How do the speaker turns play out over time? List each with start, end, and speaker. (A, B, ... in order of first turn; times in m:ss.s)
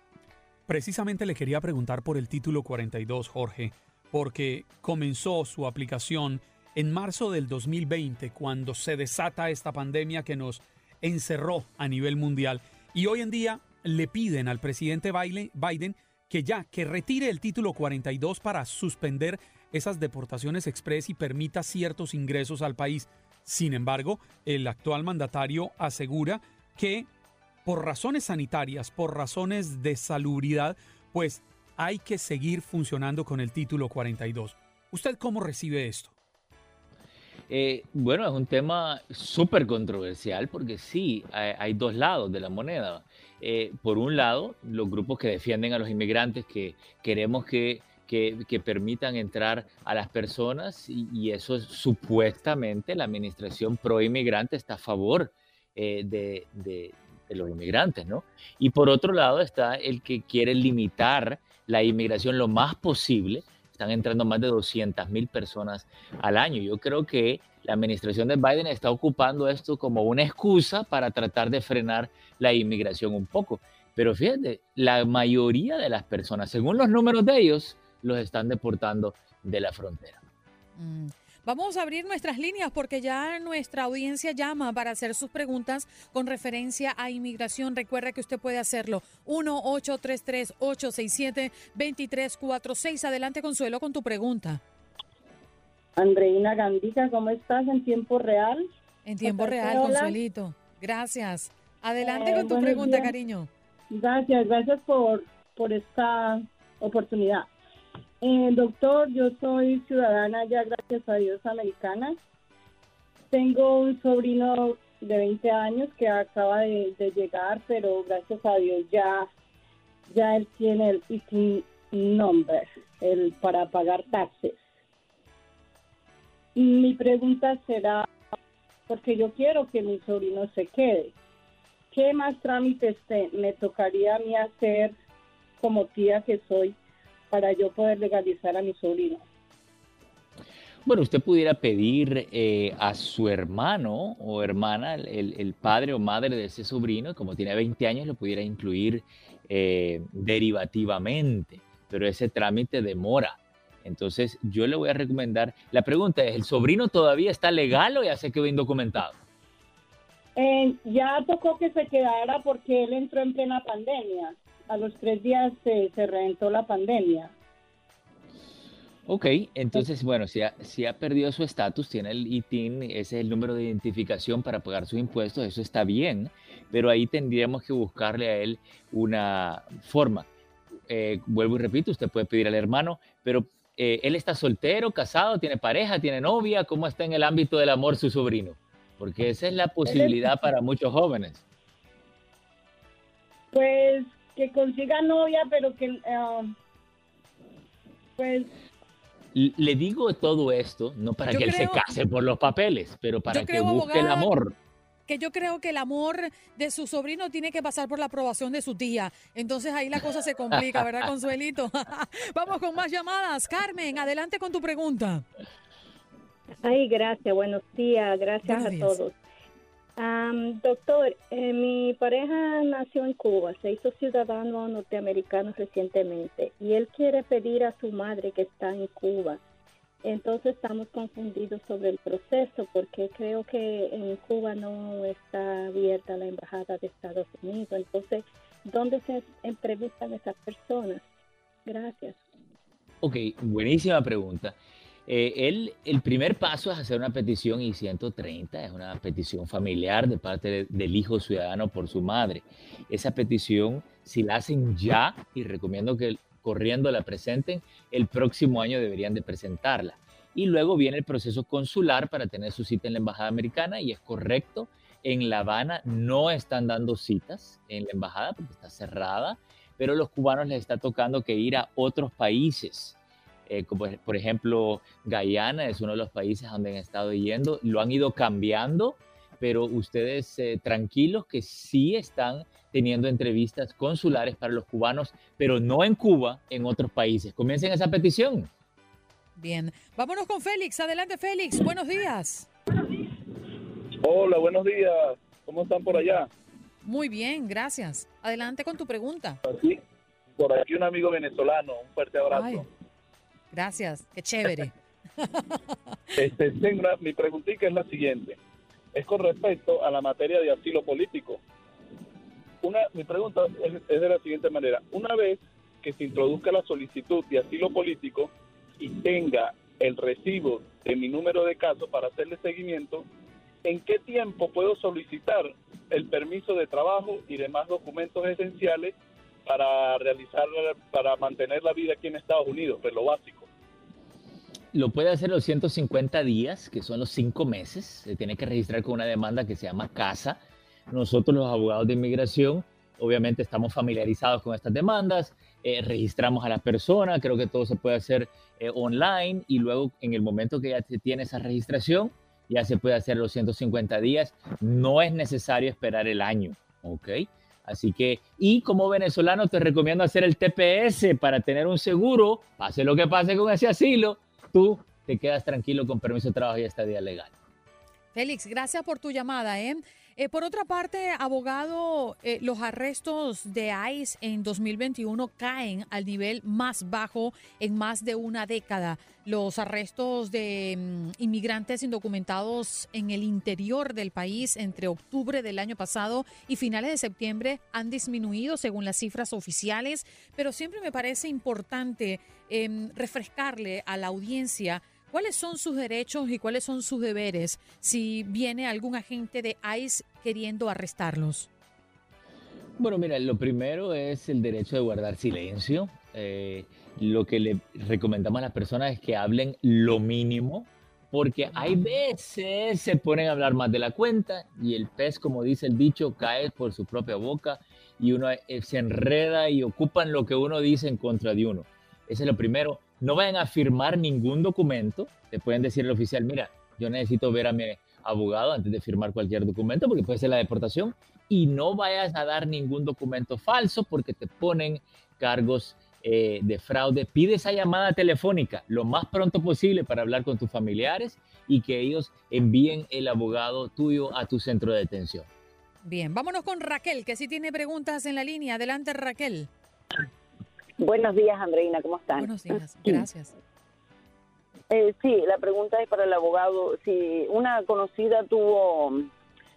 0:00.7-0:27.1 A
0:27.6-0:36.1 A
0:37.5-1:20.2 B
1:20.8-1:34.6 C
1:36.0-1:38.7 D
1:39.0-1:43.5 C
1:39.2-1:40.2 D
1:42.0-1:43.1 D
1:43.9-1:47.5 D
1:48.2-1:52.2 D
1:53.3-1:59.3 D
2:00.1-2:04.6 D
2:06.6-2:08.1 D
2:08.9-2:11.1 D
2:11.9-2:14.9 D
2:15.6-2:16.8 D
2:17.3-2:19.3 D
2:20.8-2:39.2 B
2:40.4-2:47.3 D
2:49.1-3:00.3 B
3:00.9-3:11.4 B
3:09.9-3:10.2 D
3:13.5-3:16.5 D
3:18.2-3:18.5 D
3:19.3-3:24.5 B
3:21.3-3:21.9 C
3:23.3-3:24.3 C
3:25.1-3:35.2 C
3:36.6-3:39.2 E
3:38.4-3:39.0 C
3:40.0-3:49.4 E
3:50.0-4:01.1 E
4:01.7-4:02.2 E
4:03.0-4:33.0 B
4:33.5-4:48.5 B
4:49.4-4:52.5 C
4:54.0-4:56.3 F
4:56.8-4:59.4 C
4:59.4-4:59.8 F
5:00.4-5:02.7 F
5:02.3-5:02.6 C
5:03.5-5:05.6 C
5:06.2-5:08.4 F
5:08.9-5:11.4 F
5:12.6-5:23.1 F
5:23.6-5:28.9 F
5:29.5-5:33.5 F
5:34.7-6:07.3 B
6:08.1-6:41.5 C
6:42.8-7:25.3 B
7:25.8-7:29.5 C
7:30.8-7:32.3 G
7:32.2-7:33.3 C
7:34.7-7:39.1 G